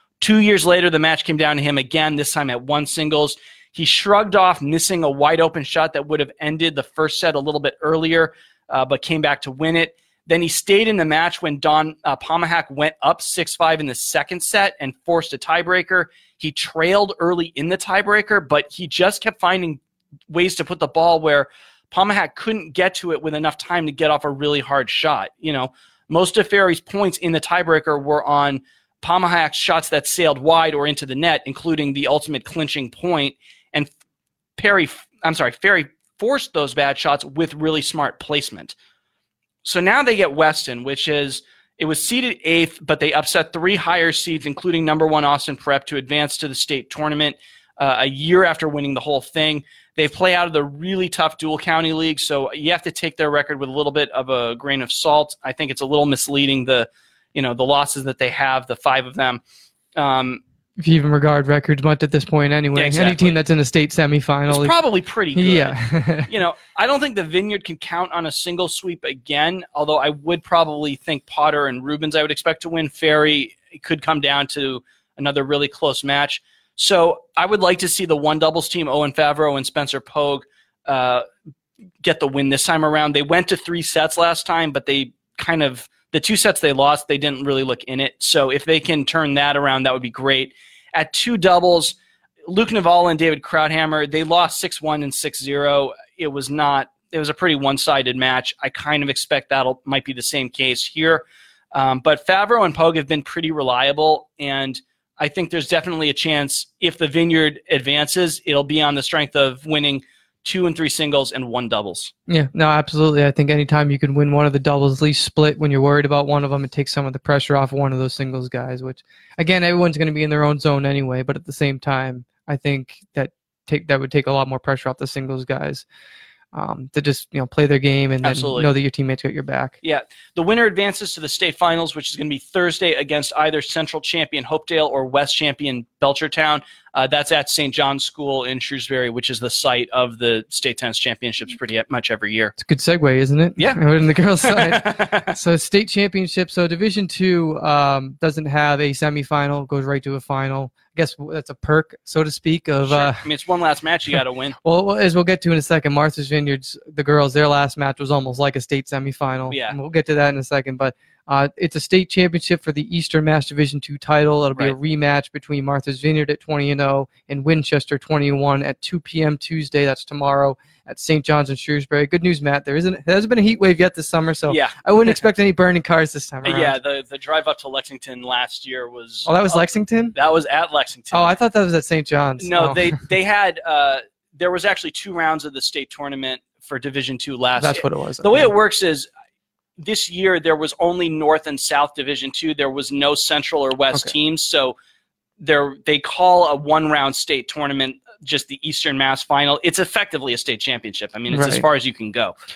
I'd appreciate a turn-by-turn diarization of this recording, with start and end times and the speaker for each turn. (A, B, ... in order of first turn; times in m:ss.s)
0:00.2-0:33.9 A
0:34.6-0:38.7 A
0:39.6-0:59.4 A
1:00.0-1:00.4 A
1:00.8-1:04.7 B
1:02.7-1:03.4 A
1:04.5-1:05.8 A
1:05.3-1:06.3 B
1:06.3-1:21.2 A
1:22.0-1:52.1 A
1:52.3-2:05.8 B
2:06.5-2:09.8 B
2:08.2-2:08.7 A
2:09.8-2:22.5 A
2:22.6-2:33.2 B
2:24.4-2:25.3 A
2:32.8-2:34.6 A
2:34.6-2:56.7 B
2:39.5-2:39.8 A
2:54.5-2:55.2 A
2:56.4-3:01.4 A
2:59.2-3:00.2 B
3:01.1-3:02.8 B
3:02.4-3:09.1 A
3:07.6-3:08.5 B
3:09.8-3:14.7 A
3:15.4-3:22.3 A
3:21.3-3:21.6 B